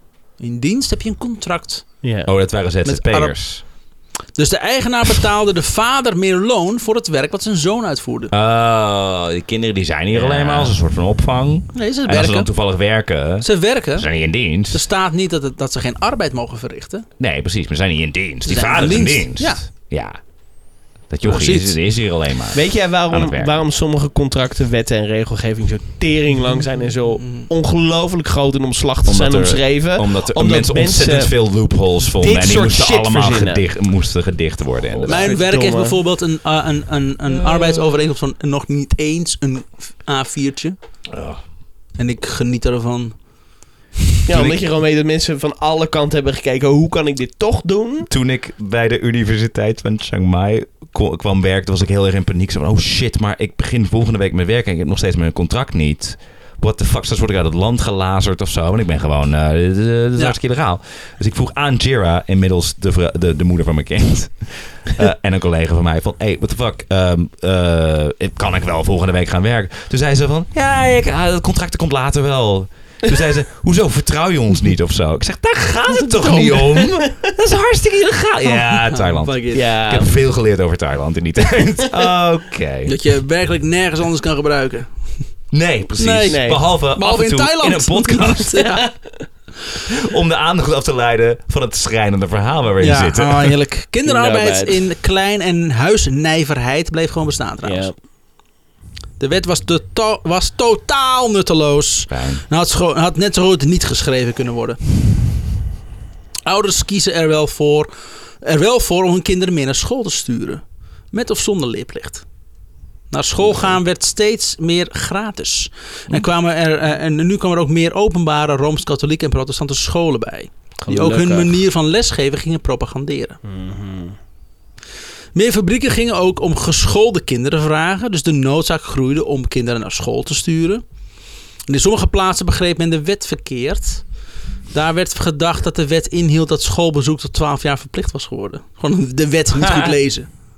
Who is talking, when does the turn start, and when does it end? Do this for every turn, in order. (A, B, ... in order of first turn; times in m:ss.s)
0:00.4-0:01.9 A
0:02.0-0:02.3 B
0:02.2-0:03.6 C
0:02.8-0:08.3 A
0:08.3-0:14.8 C
0:11.7-0:12.5 A
0:13.4-0:17.1 A
0:17.2-0:23.6 C
0:18.4-0:19.6 A
0:21.2-0:21.7 A
0:22.5-0:31.6 B
0:27.2-0:27.5 A
0:29.0-0:35.4 C
0:32.2-0:33.6 B
0:35.0-0:36.0 B
0:35.0-0:40.8 A
0:37.3-0:37.8 C
0:41.1-0:41.4 C
0:42.0-0:43.2 A
0:44.2-0:48.1 B
0:44.3-0:44.6 C
0:48.1-1:22.9 C
1:16.2-1:17.0 B
1:18.5-1:19.7 A
1:19.5-1:20.1 B
1:22.8-1:25.1 A
1:25.5-1:28.7 C
1:26.0-1:28.9 A
1:26.3-1:26.6 B
1:30.0-1:33.5 C
1:32.8-1:37.9 A
1:34.0-1:34.8 B
1:37.6-1:37.9 B
1:39.2-1:44.8 A
1:42.1-1:42.4 C
1:46.4-1:47.9 A
1:48.4-1:52.2 A
1:53.1-2:03.4 A
2:00.8-2:01.6 B
2:03.4-2:04.2 B
2:05.3-2:10.8 A
2:11.7-2:14.0 A
2:14.7-2:20.3 A